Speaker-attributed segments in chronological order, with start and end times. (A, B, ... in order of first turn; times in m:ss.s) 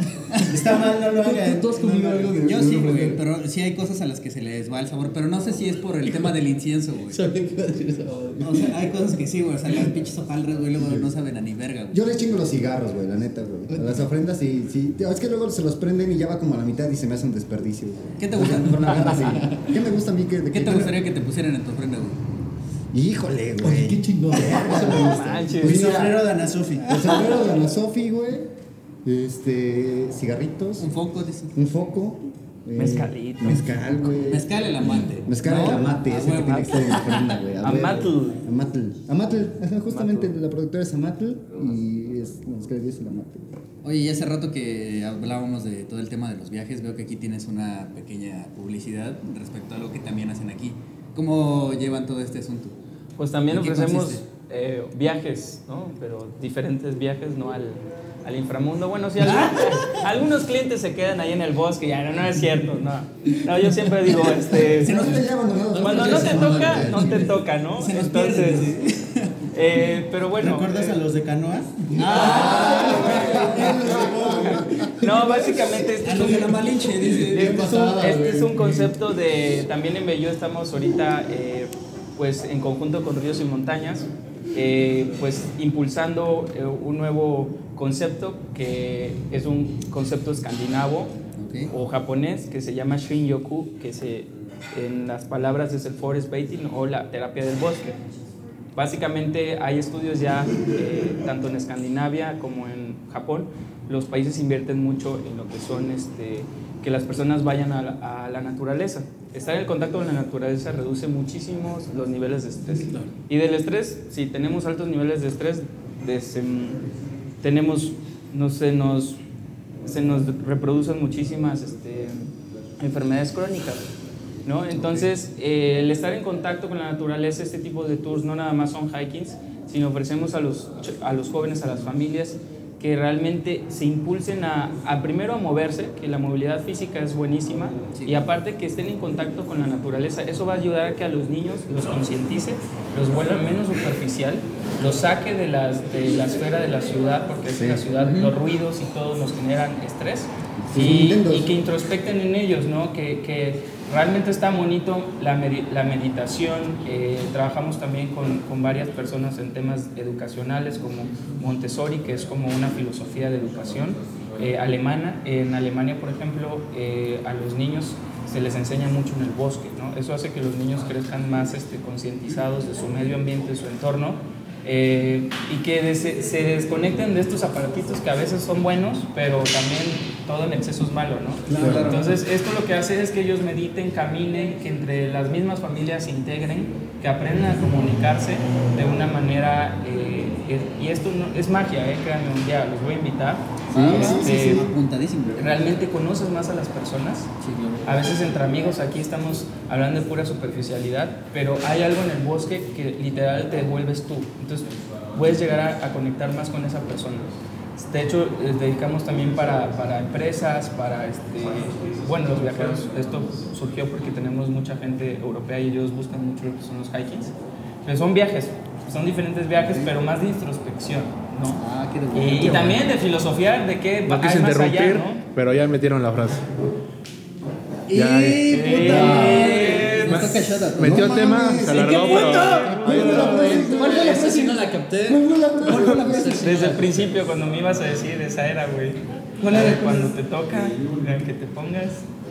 0:00.4-0:02.4 A
0:01.2-0:03.2 B
0:02.4-0:07.3 C
0:02.5-0:02.8 D
0:06.1-0:06.3 B
0:07.1-0:08.8 B
0:08.4-0:12.0 C
0:11.9-0:20.9 D
0:18.2-0:19.6 C
0:18.9-0:19.6 B
0:20.5-0:22.2 C
0:22.9-0:26.2 D
0:23.6-0:25.0 B
0:24.7-0:26.0 E
0:25.6-0:27.0 A
0:26.8-0:28.5 D
0:29.0-0:30.9 D
0:30.8-0:31.5 C
0:31.5-0:43.6 D
0:32.8-0:33.6 E
0:34.1-0:37.3 C
0:37.6-0:38.4 E
0:39.9-0:40.3 E
0:43.8-0:52.7 C
0:53.2-1:05.0 E
0:53.5-0:54.2 C
0:59.2-1:00.0 C
1:04.7-1:05.2 C
1:04.8-1:07.4 D
1:05.7-1:07.0 B
1:05.8-1:08.7 E
1:07.8-1:09.5 C
1:09.5-1:11.0 E
1:10.4-1:15.9 A
1:11.9-1:13.5 C
1:12.0-1:16.7 E
1:12.1-1:15.2 D
1:12.3-1:12.8 B
1:16.0-1:17.6 C
1:17.0-1:18.9 B
1:17.3-1:31.1 E
1:31.4-1:31.7 C
1:31.7-1:38.0 E
1:38.7-1:56.8 E
1:57.4-1:59.2 E
1:59.8-2:03.9 E
2:04.4-3:14.7 E
2:04.7-2:05.1 C
2:27.5-2:27.8 D
2:28.0-2:28.3 C
2:30.6-2:31.6 D
3:01.5-3:02.1 C
3:01.6-3:02.0 D
3:13.7-3:15.7 C
3:13.7-3:14.7 D
3:15.4-3:17.3 E
3:17.4-3:17.9 C
3:17.8-3:37.3 E
3:37.8-3:45.2 E
3:39.6-3:39.9 C
3:41.6-3:42.9 C
3:44.0-3:46.5 F
3:47.9-3:54.5 C
3:47.9-3:48.6 F
3:48.5-3:50.4 E
3:48.8-3:49.6 D
3:50.0-3:53.4 F
3:50.8-3:56.5 D
3:51.9-3:53.2 E
3:52.7-3:56.8 B
3:55.7-3:56.8 C
3:56.4-4:02.0 E